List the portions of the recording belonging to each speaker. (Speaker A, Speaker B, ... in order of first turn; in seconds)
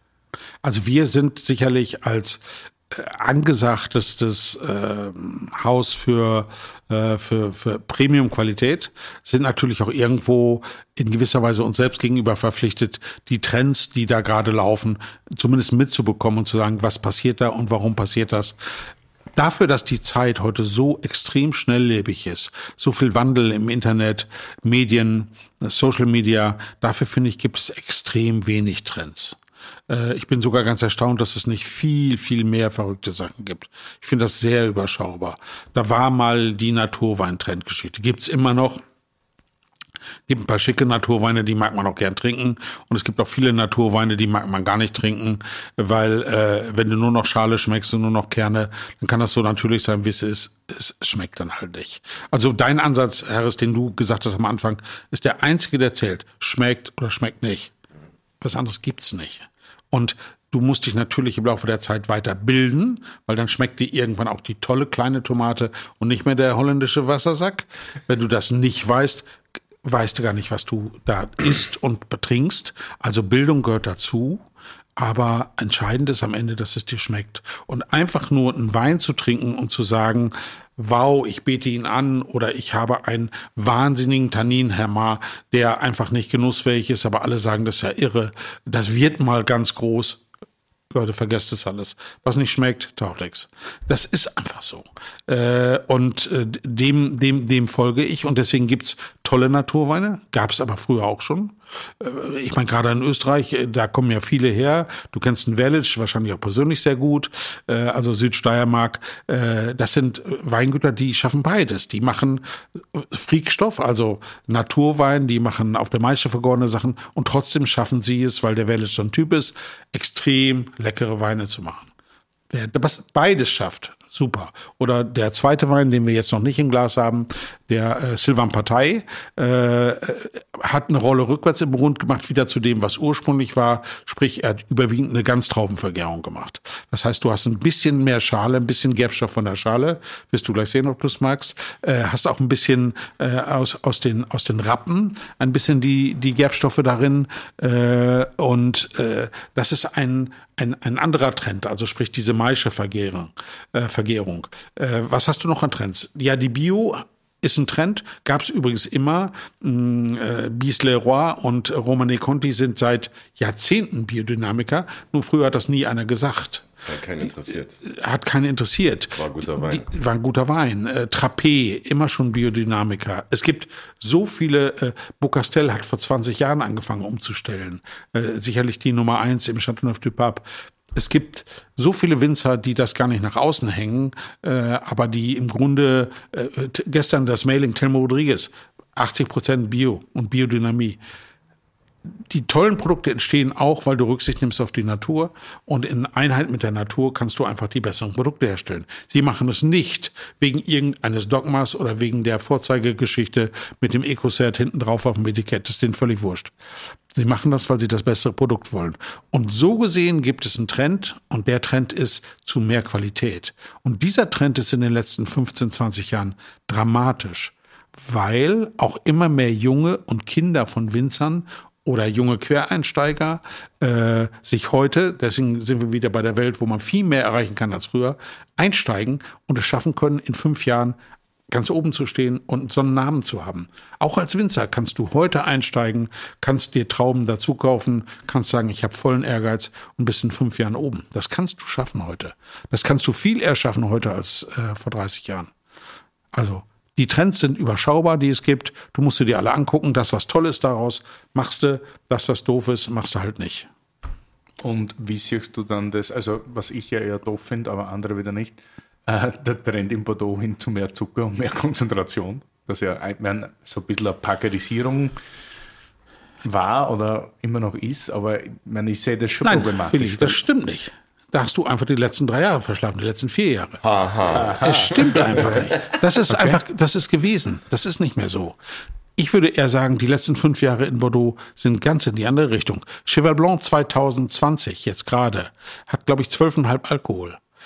Speaker A: 0.6-18.8, 19.4-29.4, 29.9-38.8, 40.3-57.7, 58.4-69.3, 69.8-74.5, 75.0-90.2, 90.9-121.9, 122.5-166.7, 167.8-191.0, 192.1-206.5, 207.1-231.0, 231.5-245.5, 246.3-253.7, 269.4-273.8, 274.4-278.6, 279.2-287.4
Speaker B: 166.8-167.8, 169.2-169.9, 273.8-275.4
Speaker C: 254.6-265.2, 266.4-270.4, 274.4-275.6, 276.3-276.6